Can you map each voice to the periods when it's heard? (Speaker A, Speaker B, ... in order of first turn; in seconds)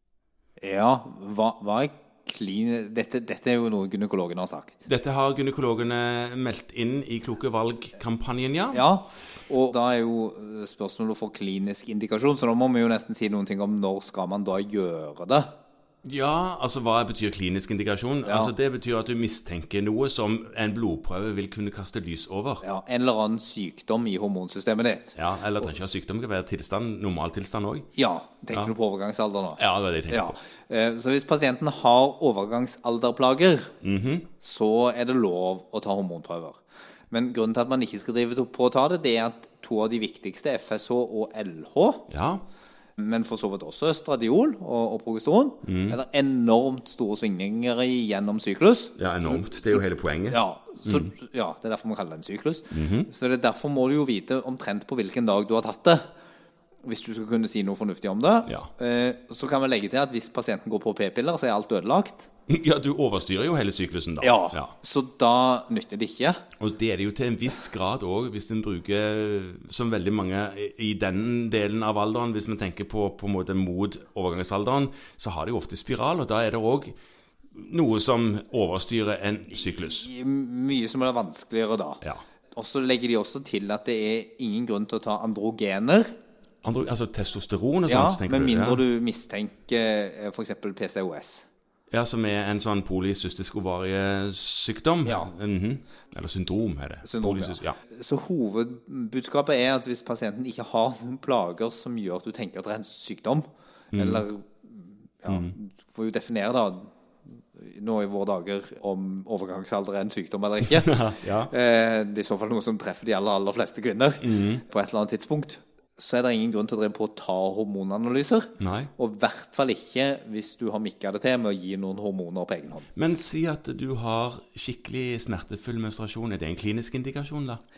Speaker A: 0.6-4.8, 8.7-15.5, 18.2-18.5, 22.6-25.2, 27.9-33.7, 34.4-42.1, 43.0-49.0, 50.3-56.1, 56.8-62.3, 64.2-66.4, 79.7-86.2, 87.9-91.5, 95.0-95.3, 97.0-106.9, 107.5-110.9, 111.5-122.9
Speaker B: 4.9-8.8, 16.0-22.6, 25.2-27.9, 29.6-30.4, 33.8-34.3, 42.1-42.5, 45.6-46.0, 49.0-51.0, 52.7-53.1, 62.5-64.7, 66.6-76.9, 77.5-80.1, 86.6-88.8, 91.9-97.8, 103.9-104.2, 105.3-105.5, 110.6-111.5, 114.2-114.6, 118.6-118.9, 123.0-127.6